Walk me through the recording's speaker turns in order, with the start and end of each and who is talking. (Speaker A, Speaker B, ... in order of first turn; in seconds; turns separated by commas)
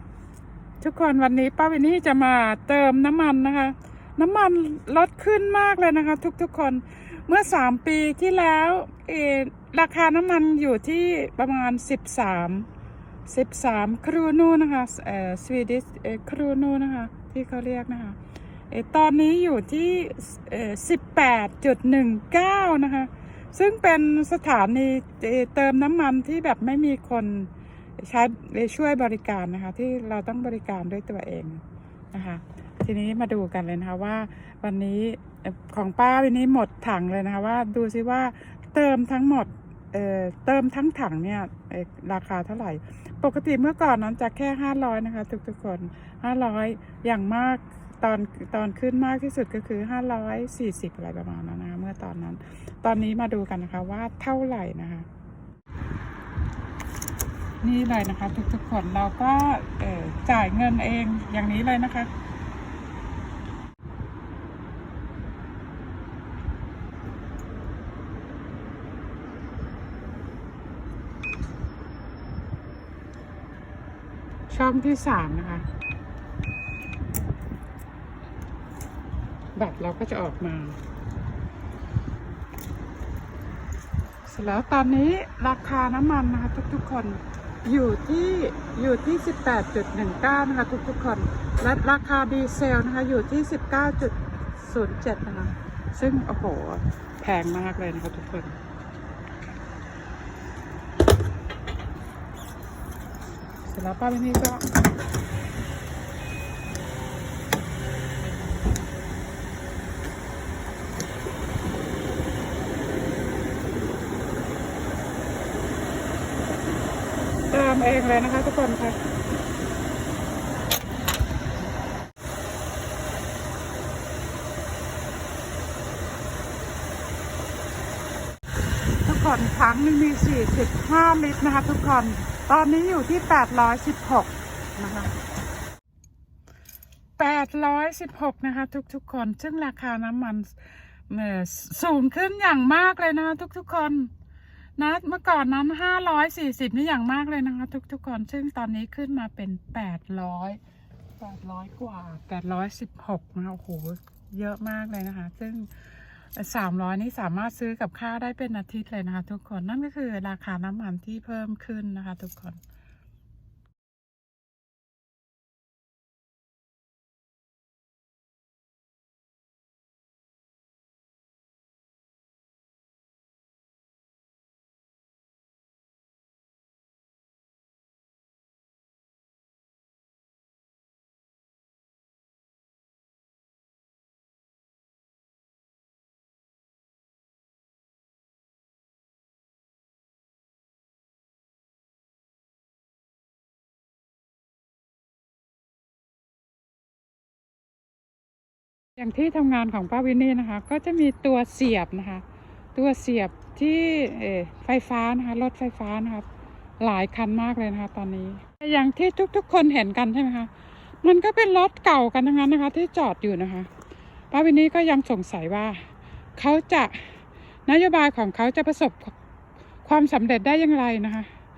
Speaker A: 0.8-12.7, Speaker A: 13.2-18.2, Speaker A: 18.7-55.1, Speaker A: 57.6-62.1, Speaker A: 74.5-75.6, Speaker A: 79.5-80.8, Speaker A: 84.3-98.6, Speaker A: 103.7-104.6, Speaker A: 117.5-119.0, Speaker A: 129.0-135.1, Speaker A: 137.2-144.1, Speaker A: 144.8-150.6, Speaker A: 151.2-162.6, Speaker A: 198.9-202.2, Speaker A: 202.7-206.3, Speaker A: 206.8-210.5, Speaker A: 211.0-213.7, Speaker A: 214.3-219.1, Speaker A: 219.8-221.3